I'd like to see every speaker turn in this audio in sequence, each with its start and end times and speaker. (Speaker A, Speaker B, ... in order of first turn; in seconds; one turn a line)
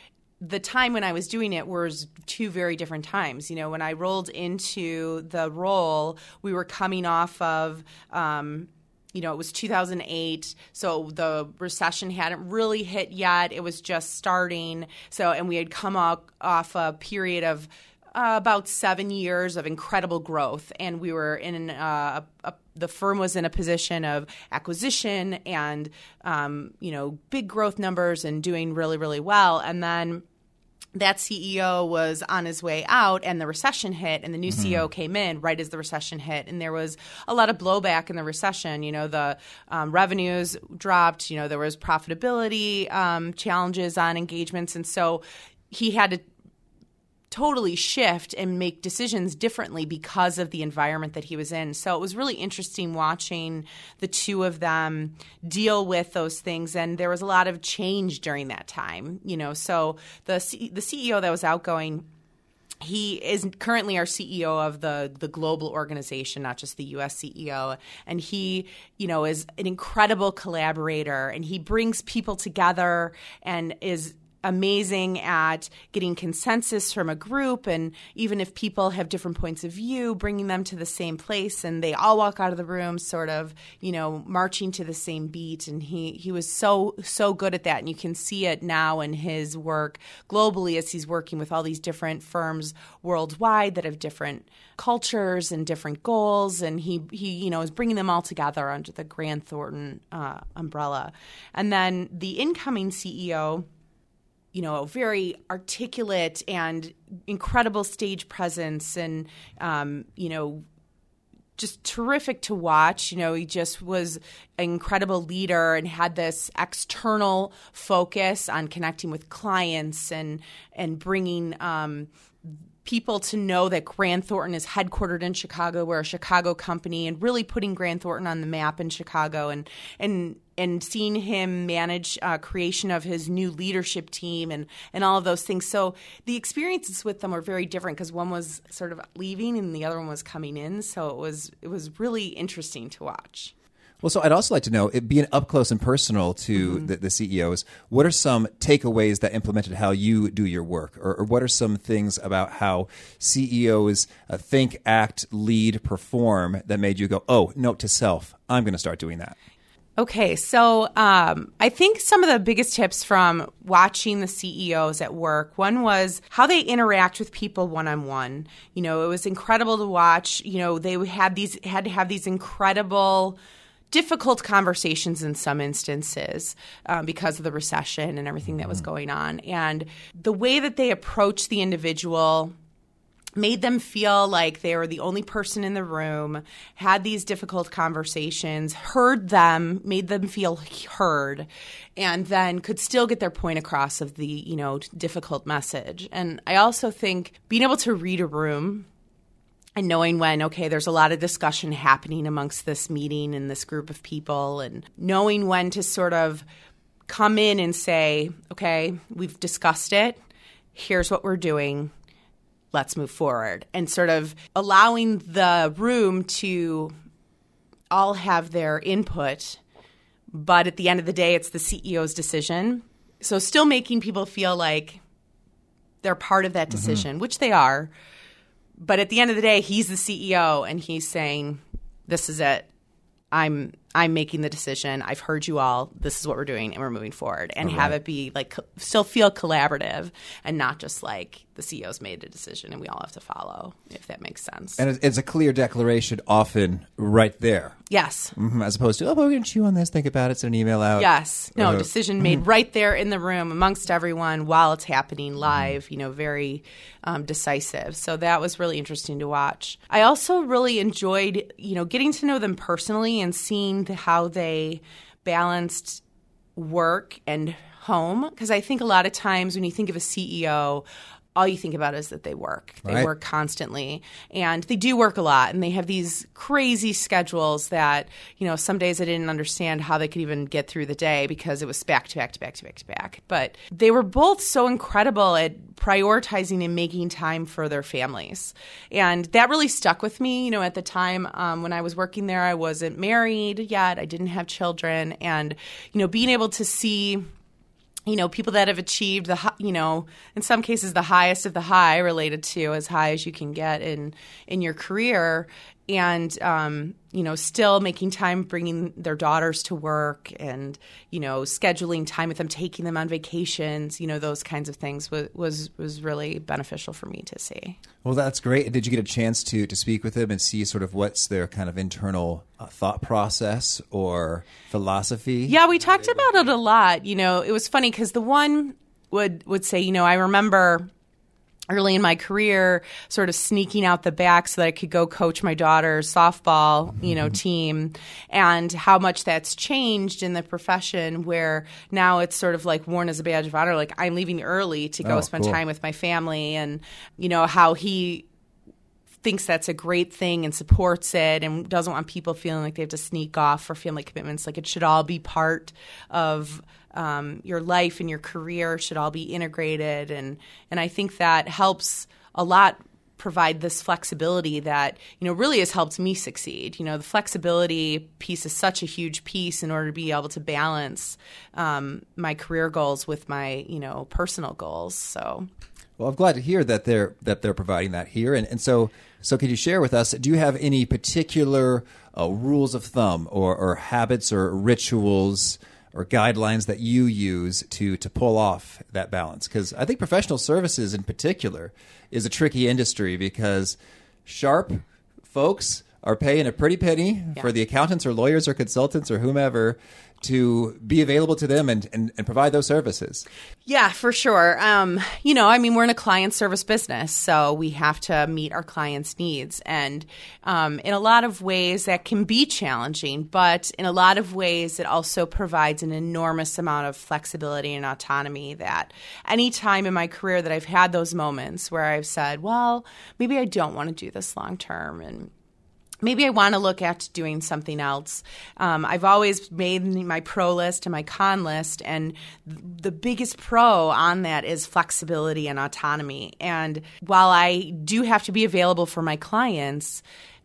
Speaker A: 0.4-30.2
Speaker A: 30.9-46.2
Speaker B: 34.5-34.8
Speaker A: 47.3-62.1
Speaker A: 62.8-103.7
Speaker A: 104.5-110.6
Speaker A: 111.6-122.1
Speaker A: 122.8-143.5
Speaker B: 144.0-159.3
Speaker A: 146.6-146.9
Speaker A: 160.0-173.4
Speaker A: 173.9-182.5
Speaker A: 183.4-198.9
Speaker A: 199.8-206.4
Speaker A: 207.1-210.2
Speaker A: 210.7-211.9
Speaker A: 212.7-216.9
Speaker A: 217.9-219.6
Speaker A: 220.3-225.0
Speaker A: 226.0-227.9
Speaker B: 226.7-227.0
Speaker A: 228.8-232.7
Speaker A: 233.3-244.8
Speaker B: 237.6-237.9
Speaker B: 244.8-247.8
Speaker A: 247.9-248.3
Speaker B: 248.3-251.8
Speaker A: 251.0-266.0
Speaker A: 266.6-270.8
Speaker A: 271.4-297.2
Speaker A: 298.1-317.8
Speaker B: 318.0-325.6
Speaker A: 325.5-330.9
Speaker A: 331.7-348.2
Speaker B: 345.0-345.6
Speaker A: 349.2-375.5
Speaker B: 376.0-403.2
Speaker A: 403.6-425.3
Speaker A: 426.0-440.0